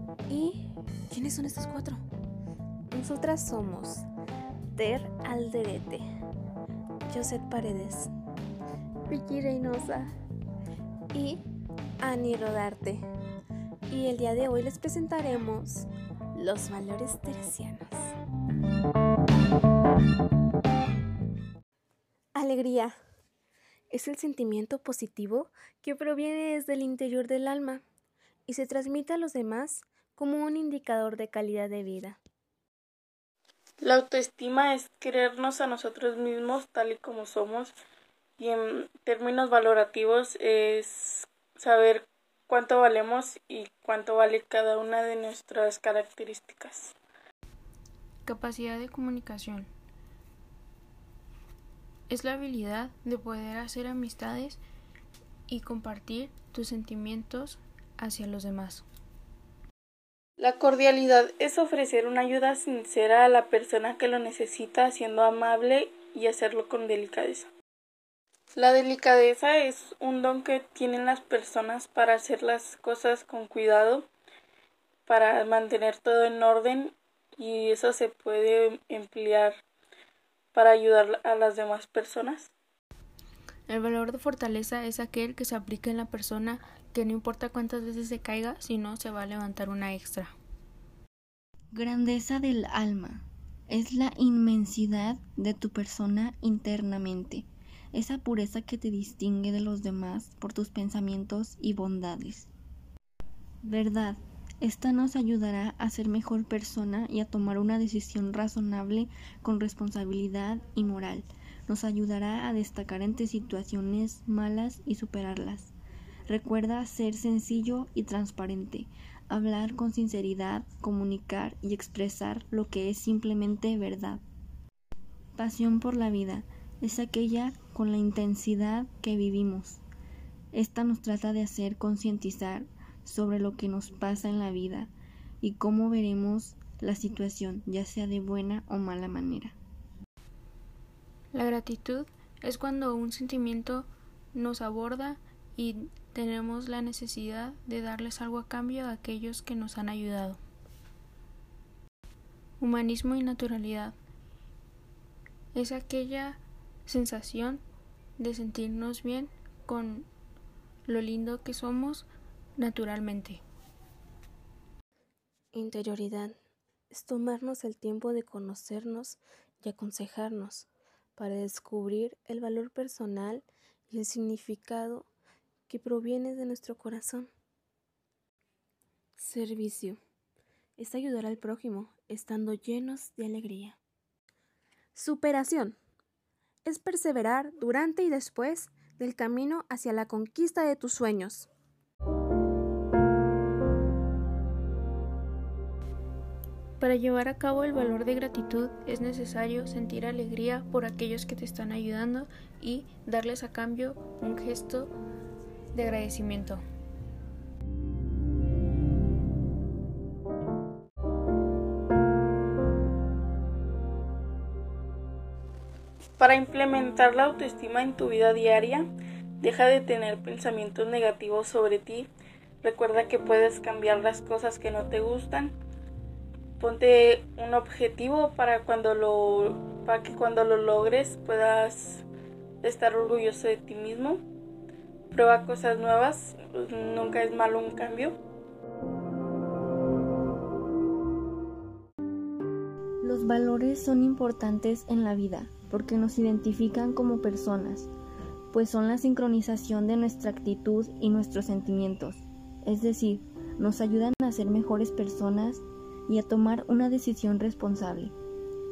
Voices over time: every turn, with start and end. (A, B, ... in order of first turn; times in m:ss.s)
0:00.3-0:02.0 A
0:02.9-0:04.0 A
0:04.7-0:06.0 A
0:07.1-0:08.1 A
0:09.1-0:10.1 A
0:11.1-0:11.4 A
0:12.0-0:13.0 A
0:13.9-0:18.2 A
0:22.3-0:23.0 A
0:23.9-0:27.8 A
0:28.5-0:32.2 A
0:33.8-0:37.7 B
0:38.4-0:47.0 B
0:48.2-0:49.7 C
0:52.1-0:54.6 C
0:55.5-0:58.8 C
1:00.4-1:07.5 B
1:08.6-1:14.1 B
1:15.0-1:19.6 B
1:20.5-1:22.5 B
1:23.7-1:30.3 C
1:31.7-1:42.5 D
1:43.6-1:55.7 D
1:56.3-2:04.2 D
2:05.4-2:09.8 D
2:10.5-2:19.6 D
2:21.3-2:30.4 C
2:32.6-2:34.0 C
2:35.5-2:37.6 C
2:38.2-2:40.1 C
2:40.8-2:43.4 C
2:45.5-2:46.4 A
2:46.9-2:55.1 A
2:55.7-2:57.3 A
2:59.2-3:00.0 A
3:00.8-3:03.8 A
3:04.9-3:05.8 A
3:06.6-3:11.5 A
3:16.8-3:24.9 C
3:25.7-3:26.6 C
3:36.2-3:42.1 B
3:42.6-3:45.6 B
3:46.6-3:52.0 B
3:52.6-3:54.2 B
3:55.1-3:58.2 B
4:03.0-4:07.9 D
4:08.5-4:18.1 D